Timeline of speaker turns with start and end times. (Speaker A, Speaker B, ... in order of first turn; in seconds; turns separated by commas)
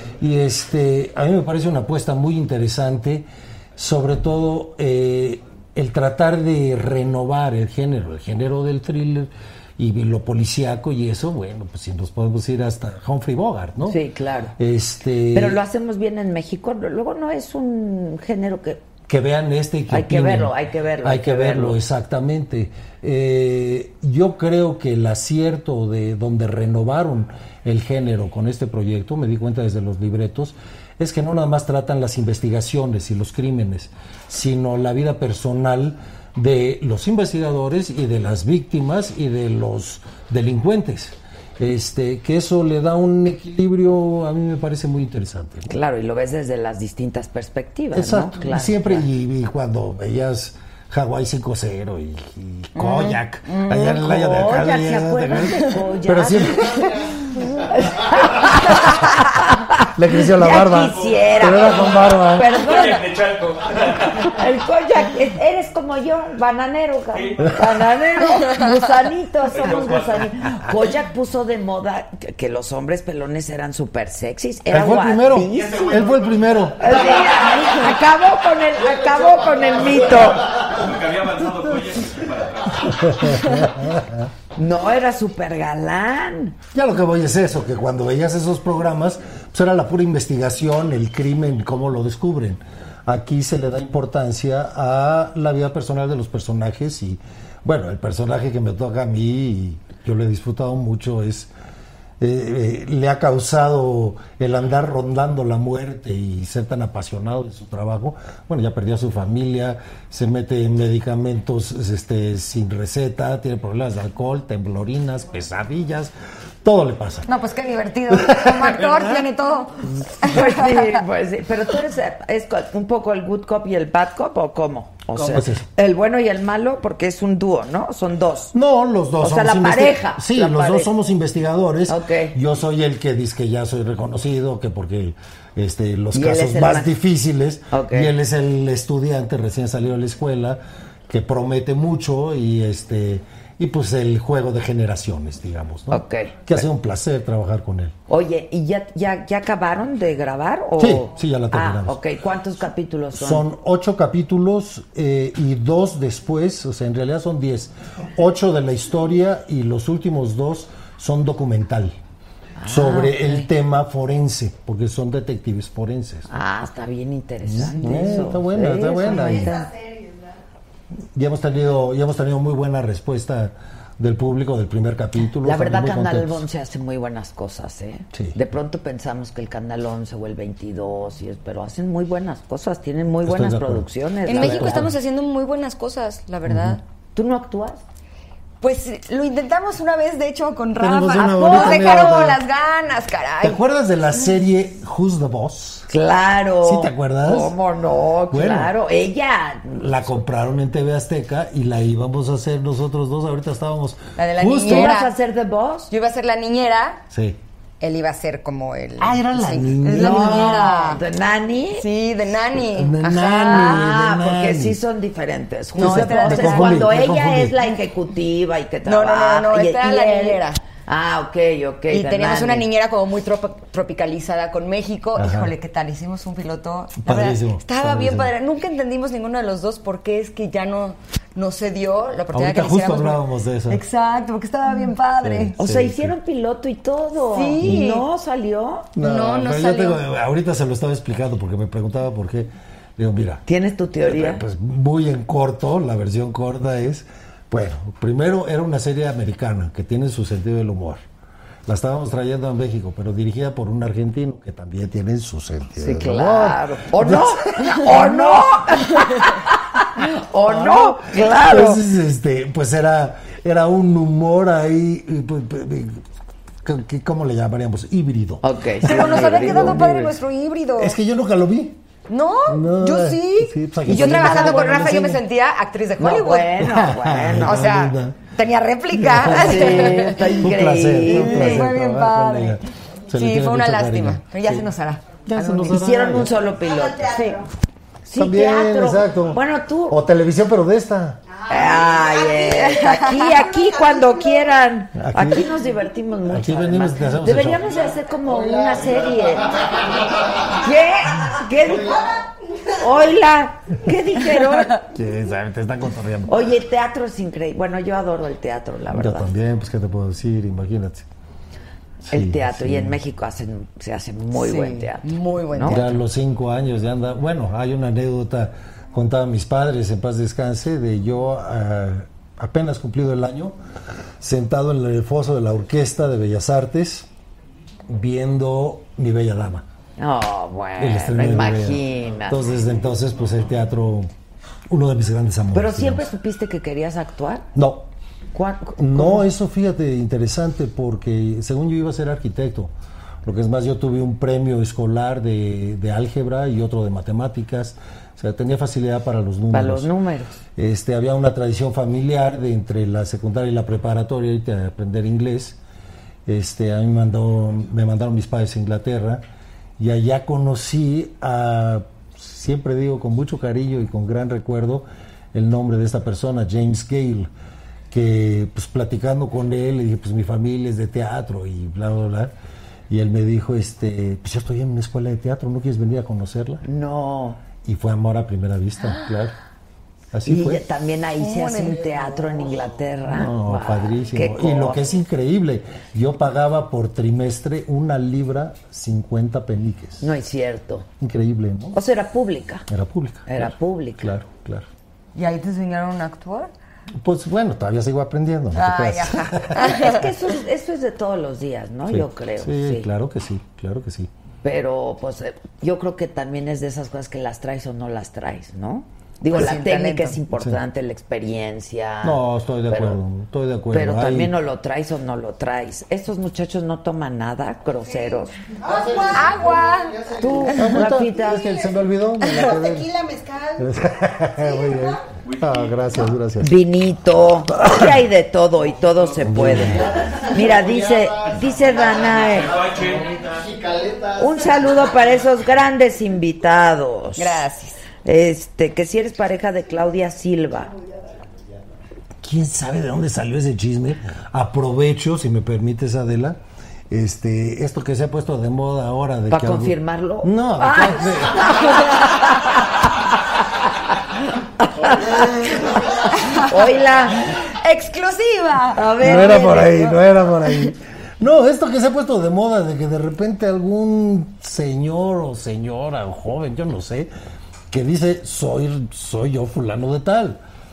Speaker A: 0.2-14.0, Speaker B: 13.8-14.6, Speaker A: 14.6-15.6, Speaker B: 15.3-18.9, Speaker A: 19.1-45.7, Speaker B: 19.9-21.8, Speaker B: 45.7-49.0, Speaker A: 47.9-56.8, Speaker B: 52.8-63.1, Speaker A: 60.0-62.6, Speaker C: 60.7-61.9, Speaker C: 62.5-64.3, Speaker B: 64.2-76.1, Speaker C: 67.1-67.5, Speaker C: 69.5-70.7, Speaker A: 74.7-77.0, Speaker B: 76.8-80.7, Speaker D: 79.1-79.8, Speaker C: 80.5-83.2, Speaker A: 82.8-84.3, Speaker B: 84.5-86.6, Speaker A: 86.7-101.5, Speaker A: 102.2-116.1, Speaker A: 116.6-117.3, Speaker E: 117.3-121.0, Speaker A: 118.1-119.1, Speaker B: 120.2-128.6, Speaker A: 125.1-125.7, Speaker A: 128.5-147.9, Speaker B: 129.2-130.9, Speaker B: 131.9-132.4, Speaker B: 136.1-136.9, Speaker B: 137.7-138.1, Speaker B: 145.9-146.6, Speaker B: 148.1-153.5, Speaker A: 150.8-152.0, Speaker A: 153.1-162.0, Speaker B: 162.6-163.5, Speaker A: 162.6-166.3, Speaker B: 166.3-169.7, Speaker A: 167.4-169.6, Speaker A: 171.2-176.4, Speaker B: 175.4-184.9, Speaker A: 183.2-184.9, Speaker E: 184.2-186.8, Speaker A: 186.5-186.8, Speaker B: 187.1-187.8, Speaker E: 188.6-193.6, Speaker A: 190.8-192.4, Speaker B: 191.2-192.2, Speaker A: 193.4-195.9, Speaker B: 195.9-200.1, Speaker A: 196.6-197.5, Speaker A: 198.3-198.7, Speaker A: 199.7-205.0, Speaker E: 204.2-205.1, Speaker B: 204.6-205.9, Speaker E: 205.9-207.0, Speaker A: 207.1-207.4, Speaker E: 207.8-211.0, Speaker A: 209.0-210.6, Speaker B: 209.8-211.9, Speaker E: 211.8-213.9, Speaker A: 212.7-214.8, Speaker B: 213.2-222.7, Speaker A: 215.7-217.6, Speaker E: 215.8-216.9, Speaker E: 218.8-220.6, Speaker E: 221.9-235.6, Speaker A: 225.2-225.5, Speaker A: 227.0-228.3, Speaker A: 232.3-233.8, Speaker A: 235.2-236.2, Speaker B: 235.6-238.9, Speaker E: 237.3-238.1, Speaker A: 239.0-243.4, Speaker E: 239.0-240.0, Speaker B: 243.5-244.4, Speaker A: 244.0-251.0, Speaker A: 251.7-258.6, Speaker B: 255.8-261.8, Speaker E: 259.0-259.3, Speaker A: 260.5-266.0, Speaker A: 266.6-270.1, Speaker B: 268.4-270.1, Speaker E: 268.8-271.0, Speaker A: 270.8-271.8, Speaker E: 272.1-276.7, Speaker A: 272.5-275.2, Speaker B: 276.0-277.7, Speaker A: 276.6-278.2, Speaker E: 277.4-280.4, Speaker A: 278.9-284.7, Speaker B: 279.2-281.7, Speaker E: 281.0-282.6, Speaker E: 283.1-285.7, Speaker A: 285.3-286.3, Speaker B: 285.4-287.5, Speaker B: 288.1-290.0, Speaker A: 288.1-291.2, Speaker B: 291.5-299.6, Speaker E: 292.4-293.4, Speaker A: 294.9-295.5, Speaker A: 296.3-297.7, Speaker D: 298.3-300.1, Speaker B: 300.5-304.8, Speaker A: 304.8-306.5, Speaker B: 306.3-309.3, Speaker A: 308.9-311.1, Speaker A: 312.0-313.0, Speaker B: 312.1-316.0, Speaker E: 314.4-316.0, Speaker A: 315.7-323.6, Speaker A: 324.2-327.1, Speaker A: 327.9-329.6, Speaker B: 330.0-332.5, Speaker A: 330.8-334.1, Speaker A: 334.7-336.1, Speaker B: 335.5-337.5, Speaker A: 337.6-337.9, Speaker B: 338.3-339.2, Speaker A: 338.8-342.7, Speaker A: 343.2-349.9, Speaker B: 349.5-350.4, Speaker A: 350.6-355.6, Speaker A: 356.3-359.2, Speaker A: 359.8-367.3, Speaker A: 367.9-372.3, Speaker A: 372.9-376.6, Speaker B: 376.6-377.4, Speaker A: 377.5-379.4, Speaker A: 380.1-380.6, Speaker B: 380.3-384.9, Speaker E: 381.2-382.4, Speaker A: 383.1-390.1, Speaker B: 390.0-390.9, Speaker A: 391.0-391.8, Speaker B: 391.7-392.7, Speaker A: 392.7-394.7, Speaker B: 393.3-394.1, Speaker E: 395.1-396.5, Speaker A: 397.0-399.8, Speaker E: 398.5-400.1, Speaker B: 399.6-402.9, Speaker A: 401.9-404.1, Speaker B: 404.4-413.0, Speaker E: 409.3-410.2, Speaker A: 410.3-410.6, Speaker A: 412.0-414.3, Speaker B: 413.7-418.4, Speaker D: 418.6-420.7, Speaker E: 419.1-419.9, Speaker B: 420.2-421.6, Speaker A: 420.6-426.6, Speaker C: 425.2-425.8, Speaker B: 426.4-432.5, Speaker A: 427.5-427.9, Speaker A: 429.2-429.9, Speaker D: 429.6-434.9, Speaker C: 432.2-433.0, Speaker B: 434.2-437.4, Speaker E: 437.2-437.8, Speaker B: 438.0-440.8, Speaker A: 442.2-451.8, Speaker B: 449.3-452.8, Speaker B: 454.6-457.2, Speaker E: 456.1-456.6, Speaker E: 457.4-459.7, Speaker B: 458.7-460.0, Speaker A: 459.0-467.1, Speaker A: 467.7-470.4